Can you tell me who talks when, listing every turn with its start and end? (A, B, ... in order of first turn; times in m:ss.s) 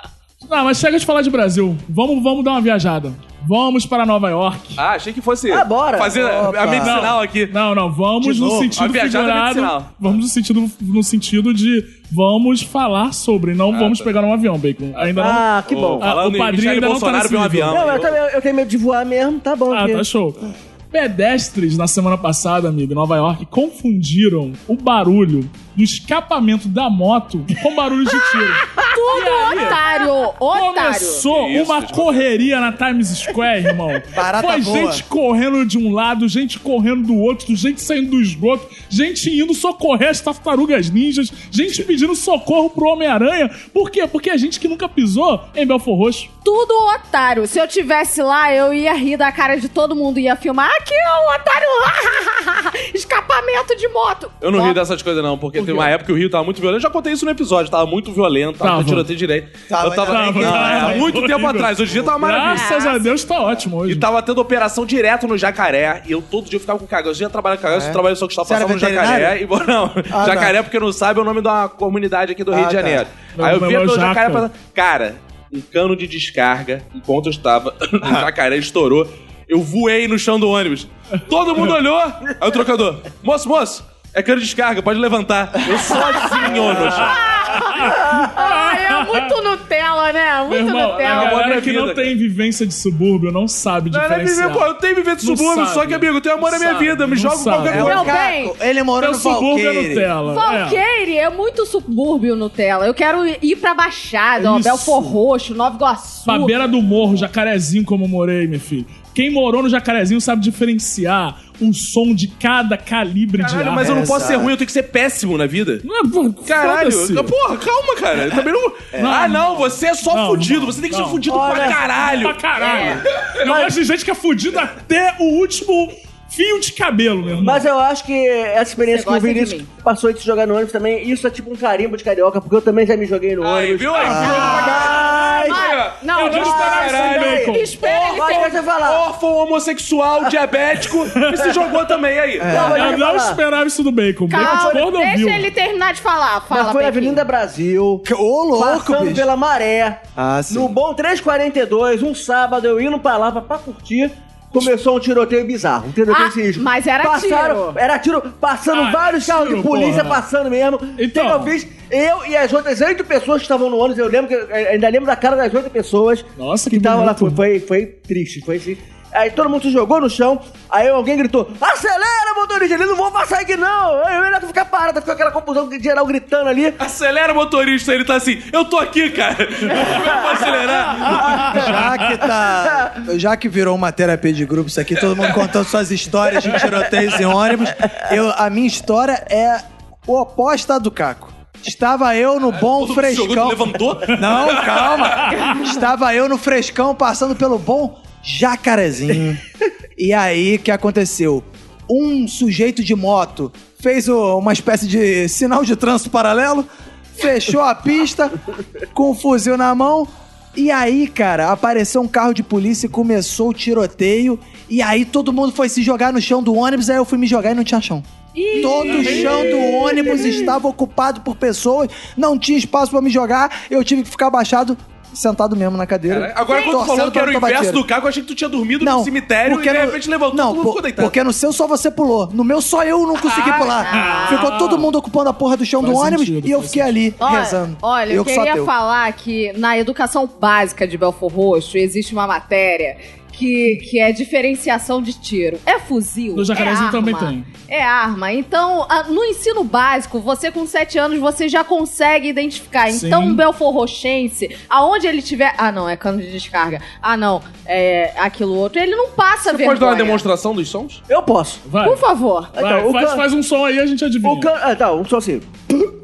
0:00.4-0:04.8 A
0:04.8-0:07.5 B
0:05.5-0:06.3 C
0:06.2-0:07.1 D
0:06.7-0:17.9 A
0:08.2-0:08.8 D
0:08.8-0:10.0 B
0:13.7-0:14.1 B
0:15.0-0:18.2 B
0:15.2-0:16.1 C
0:17.7-0:20.0 C
0:19.7-0:29.8 A
0:28.7-0:31.2 E
0:30.5-0:46.3 A
0:31.3-0:32.3 B
0:34.1-0:35.0 D
0:46.4-0:54.8 E
0:54.4-1:02.7 B
0:55.6-0:55.9 A
0:58.6-0:59.1 A
0:59.7-1:01.2 D
1:00.0-1:04.1 A
1:02.5-1:03.1 E
1:03.9-1:27.2 B
1:07.7-1:09.4 D
1:10.1-1:10.6 D
1:12.5-1:13.1 D
1:13.4-1:14.5 A
1:26.5-1:29.3 A
1:26.9-1:31.4 E
1:30.5-1:34.7 A
1:31.0-1:32.1 B
1:33.9-1:38.1 B
1:35.2-1:38.1 A
1:37.7-1:38.6 E
1:37.7-1:40.1 D
1:39.0-1:40.8 A
1:40.2-1:46.6 E
1:44.4-1:45.1 A
1:46.3-1:54.0 A
1:53.4-1:55.8 B
1:53.8-1:54.6 D
1:55.8-1:57.3 A
1:56.5-2:02.4 B
1:58.9-1:59.2 D
1:59.0-2:07.7 A
2:01.3-2:01.8 C
2:02.6-2:03.0 E
2:03.4-2:03.8 C
2:07.4-2:15.7 C
2:08.8-2:09.7 E
2:13.4-2:17.5 B
2:14.0-2:14.8 A
2:14.0-2:14.5 D
2:14.1-2:18.6 E
2:16.2-2:18.0 A
2:16.3-2:19.0 C
2:18.0-2:22.6 B
2:21.1-2:21.6 A
2:22.4-2:22.9 D
2:22.4-2:23.4 C
2:22.6-2:25.5 A
2:24.3-2:27.2 E
2:24.4-2:24.8 C
2:26.5-2:28.0 C
2:28.0-2:29.3 D
2:28.6-2:56.8 C
2:30.2-2:30.8 D
2:36.1-2:37.8 E
2:38.7-2:40.2 A
2:41.0-2:41.5 A
2:46.4-2:47.4 A
2:56.8-3:01.7 B
2:59.9-3:00.1 C
3:01.1-3:01.6 C
3:01.3-3:19.4 D
3:12.6-3:15.3 B
3:20.0-3:28.4 D
3:28.9-3:47.8 D
3:38.4-3:40.5 E
3:38.6-3:39.8 A
3:46.1-3:51.2 B
3:46.5-3:46.8 E
3:48.8-3:58.7 D
3:53.6-3:54.5 E
3:53.9-3:54.9 A
3:55.8-3:57.0 A
3:57.2-4:20.2 E
4:06.3-4:07.5 A
4:12.9-4:13.4 A
4:19.5-4:21.0 B
4:21.1-4:21.6 C
4:21.7-4:22.0 A
4:21.8-4:22.5 E
4:22.6-4:23.2 C
4:22.6-4:24.5 A
4:24.2-4:25.5 C